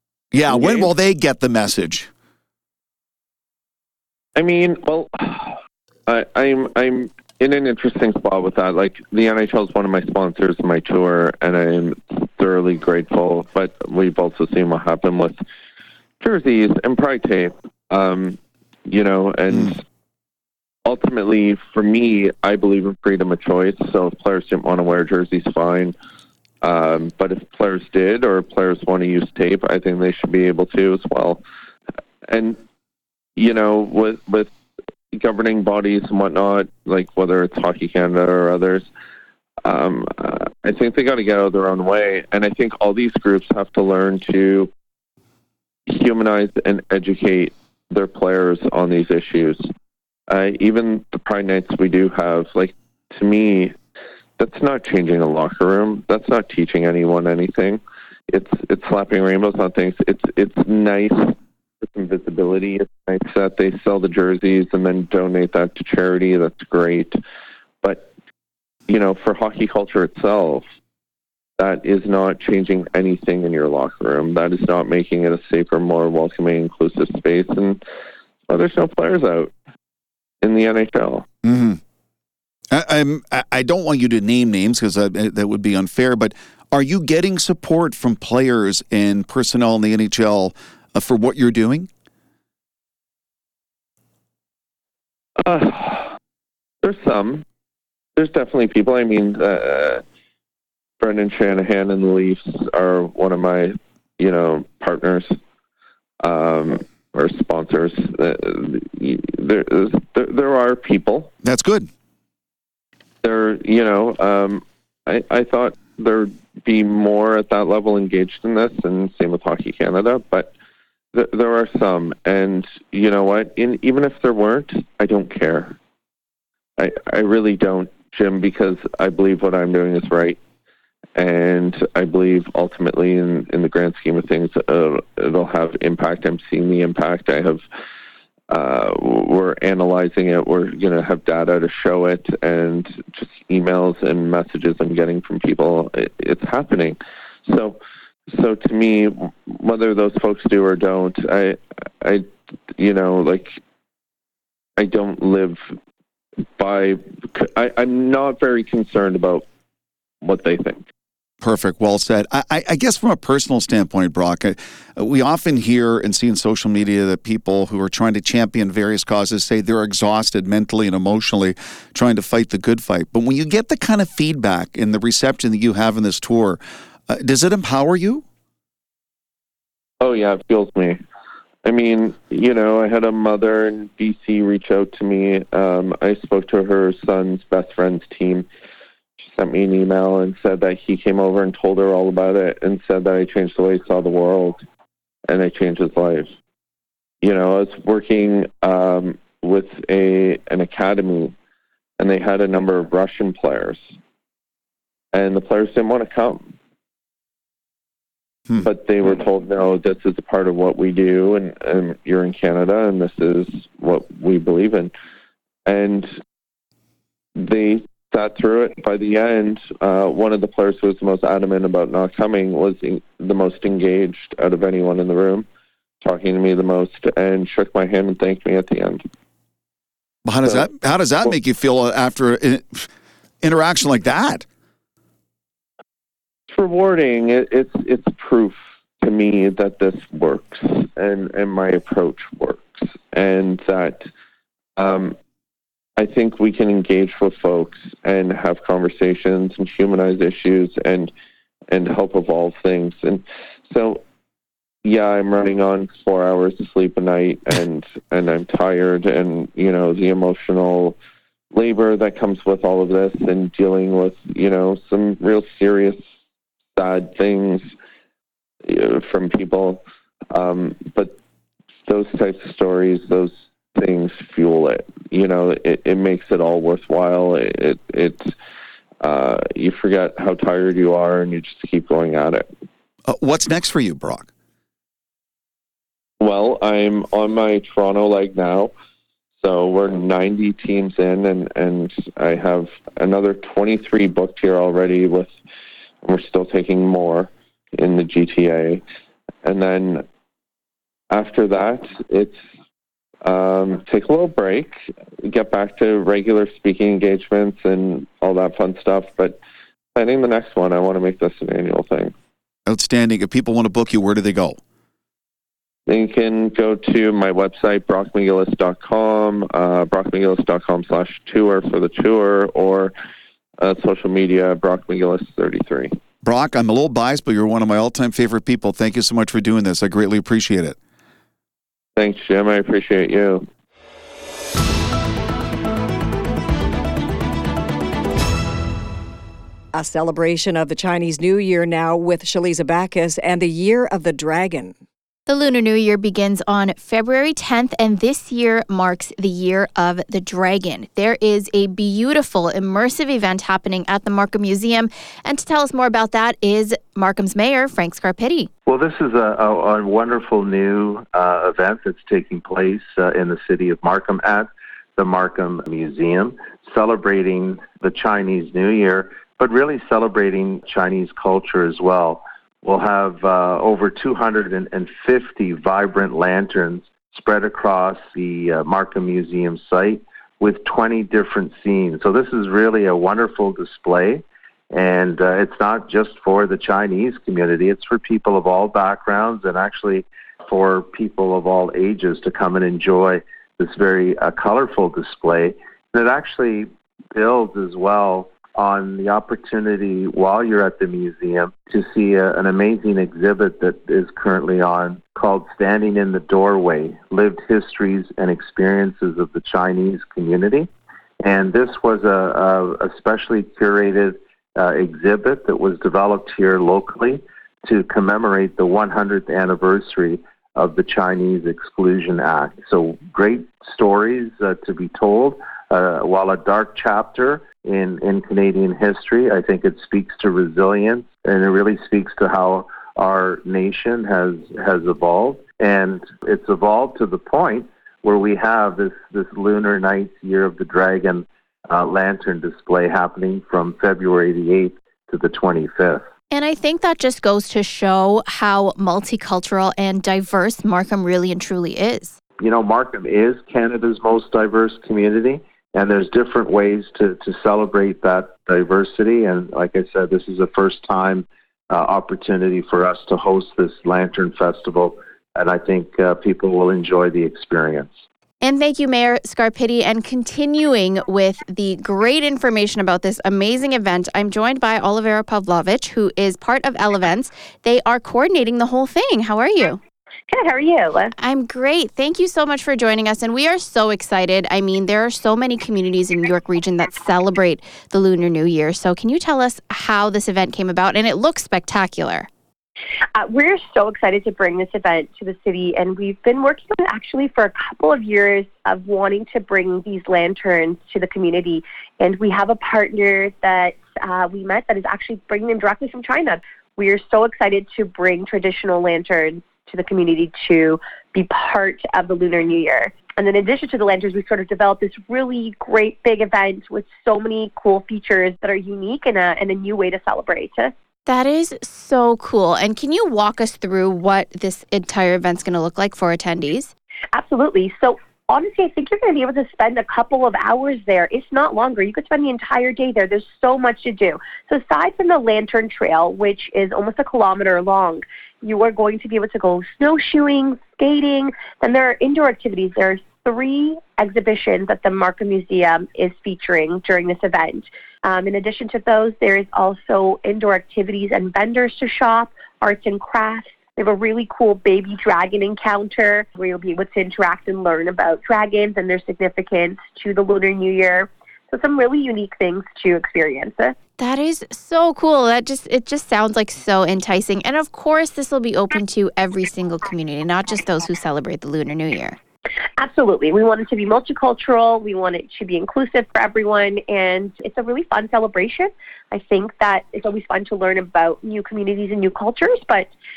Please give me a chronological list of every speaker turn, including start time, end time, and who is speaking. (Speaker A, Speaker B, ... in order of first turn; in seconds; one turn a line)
Speaker A: 0.3-2.1
Speaker B: 0.5-0.9
Speaker B: 4.4-15.4
Speaker B: 16.2-19.8
Speaker B: 20.9-25.9
Speaker B: 26.6-31.4
Speaker B: 32.3-32.6
Speaker B: 33.4-34.5
Speaker B: 35.1-38.9
Speaker B: 39.6-44.7
Speaker B: 45.9-49.6
Speaker B: 50.3-53.8
Speaker B: 54.4-67.2
Speaker B: 67.8-68.1
Speaker B: 68.9-70.7
Speaker B: 71.6-77.8
Speaker B: 78.5-79.5
Speaker B: 80.4-81.3
Speaker A: 81.4-81.8
Speaker A: 82.7-91.9
Speaker B: 95.4-96.2
Speaker B: 96.8-97.5
Speaker B: 98.2-100.0
Speaker B: 101.0-105.4
Speaker B: 106.2-111.3
Speaker A: 111.4-111.9
Speaker B: 113.2-120.5
Speaker B: 121.1-125.8
Speaker B: 126.8-130.4
Speaker B: 131.2-137.6
Speaker B: 138.5-153.6
Speaker B: 154.8-155.6
Speaker B: 156.6-159.5
Speaker B: 160.2-160.9
Speaker A: 161.4-178.2
Speaker B: 180.0-181.0
Speaker B: 181.7-188.5
Speaker B: 189.2-194.6
Speaker B: 195.3-196.3
Speaker B: 197.2-201.3
Speaker B: 202.0-203.9
Speaker B: 205.1-206.5
Speaker B: 208.6-214.9
Speaker B: 215.7-216.1
Speaker B: 217.4-225.5
Speaker B: 226.0-229.0
Speaker A: 230.2-232.9
Speaker A: 233.4-234.4
Speaker B: 236.5-244.1
Speaker B: 244.8-245.2
Speaker B: 246.0-251.1
Speaker B: 251.7-254.0
Speaker B: 254.8-261.0
Speaker B: 261.5-266.0
Speaker B: 266.7-267.7
Speaker B: 268.6-269.8
Speaker B: 270.3-271.2
Speaker B: 271.8-278.3
Speaker B: 279.0-282.5
Speaker A: 283.1-284.3
Speaker B: 286.2-288.7
Speaker B: 289.4-295.4
Speaker B: 296.0-298.8
Speaker B: 299.4-300.1
Speaker B: 301.1-302.4
Speaker B: 303.2-309.4
Speaker B: 309.9-312.1
Speaker A: 312.7-314.6
Speaker B: 315.9-322.9
Speaker B: 323.6-325.9
Speaker A: 326.2-330.8
Speaker B: 332.0-333.4
Speaker C: 339.7-344.8
Speaker D: 345.3-358.5
Speaker E: 358.7-410.7
Speaker E: 411.2-446.1
Speaker D: 446.3-452.2
Speaker E: 452.4-468.1
Speaker D: 468.4-479.8
Speaker F: 480.3-481.1
Speaker D: 481.1-492.3
Speaker F: 493.2-520.7
Speaker D: 521.1-526.7
Speaker F: 527.1-563.8
Speaker D: 563.9-572.2
Speaker F: 572.8-582.9